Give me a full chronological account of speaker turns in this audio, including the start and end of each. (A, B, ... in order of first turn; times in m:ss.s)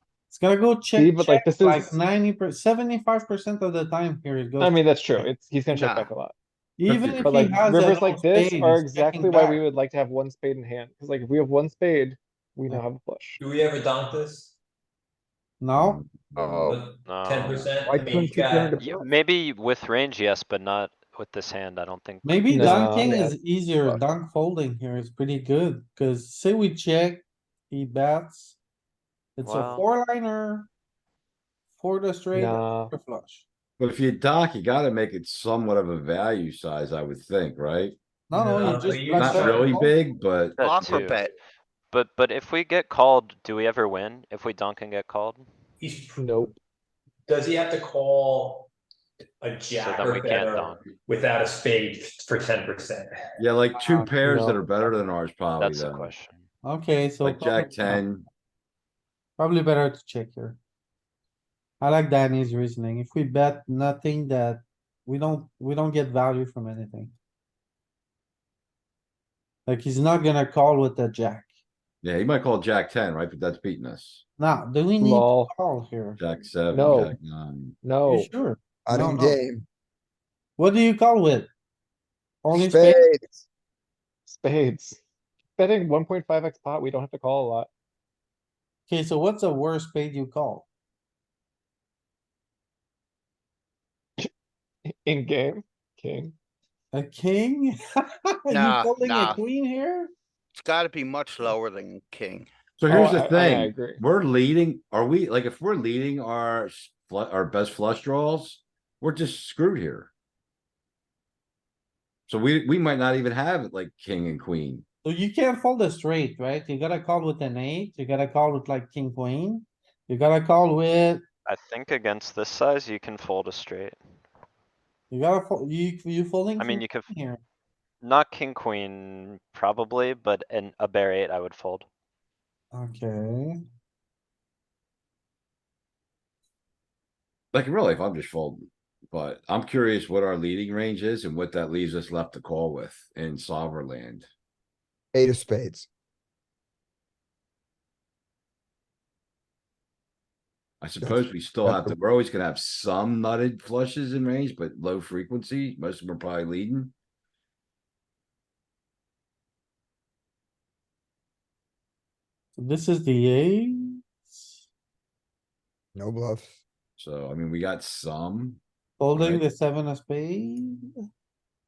0:00.3-0:05.3 A
0:01.0-0:02.0 B
0:04.6-0:06.3 B
0:05.7-0:06.1 C
0:06.8-0:09.6 A
0:06.9-0:13.4 B
0:13.4-0:14.6 D
0:15.6-0:16.0 A
0:15.8-0:16.7 E
0:16.4-0:16.8 F
0:16.6-0:18.8 D
0:17.0-0:17.7 G
0:17.8-0:19.1 F
0:18.8-0:23.1 G
0:22.2-0:28.6 A
0:22.5-0:24.0 B
0:29.4-0:30.7 A
0:29.4-0:29.9 G
0:31.8-0:33.4 A
0:32.3-0:32.9 B
0:33.8-0:38.0 E
0:38.3-0:39.9 A
0:38.4-0:39.7 D
0:39.2-0:40.6 E
0:40.6-0:41.3 G
0:40.6-0:41.3 C
0:41.9-0:45.5 G
0:45.8-0:46.3 D
0:46.2-0:46.6 B
0:47.3-0:48.7 D
0:49.4-0:53.2 D
0:49.7-0:50.8 G
0:53.4-0:56.1 E
0:53.8-0:54.1 A
0:54.2-0:54.6 B
0:55.6-0:56.5 G
0:56.6-0:58.0 A
0:57.2-0:58.3 E
0:59.4-1:00.6 A
1:01.8-1:07.2 A
1:09.7-1:11.5 A
1:12.0-1:14.2 E
1:14.4-1:16.2 A
1:15.0-1:15.5 B
1:16.2-1:17.8 E
1:16.7-1:17.2 B
1:17.8-1:18.3 B
1:18.1-1:19.4 A
1:18.8-1:19.6 F
1:20.6-1:21.5 A
1:22.4-1:23.1 A
1:22.5-1:23.2 F
1:24.3-1:25.0 B
1:25.6-1:27.7 B
1:28.9-1:30.7 A
1:34.9-1:36.3 B
1:36.9-1:37.7 A
1:38.5-1:40.1 A
1:38.5-1:39.4 C
1:40.6-1:42.5 C
1:42.8-1:50.1 E
1:42.9-1:44.0 B
1:52.3-1:54.8 E
1:55.0-2:01.2 A
2:01.5-2:04.0 G
2:05.1-2:07.4 A
2:06.6-2:07.1 G
2:08.0-2:11.9 G
2:12.7-2:13.6 A
2:17.5-2:24.3 E
2:25.1-2:25.9 F
2:30.8-2:36.9 E
2:31.0-2:32.0 F
2:42.6-2:44.6 A
2:46.0-2:46.6 F
2:47.0-2:48.6 E
2:49.0-2:50.8 A
2:49.2-2:49.4 E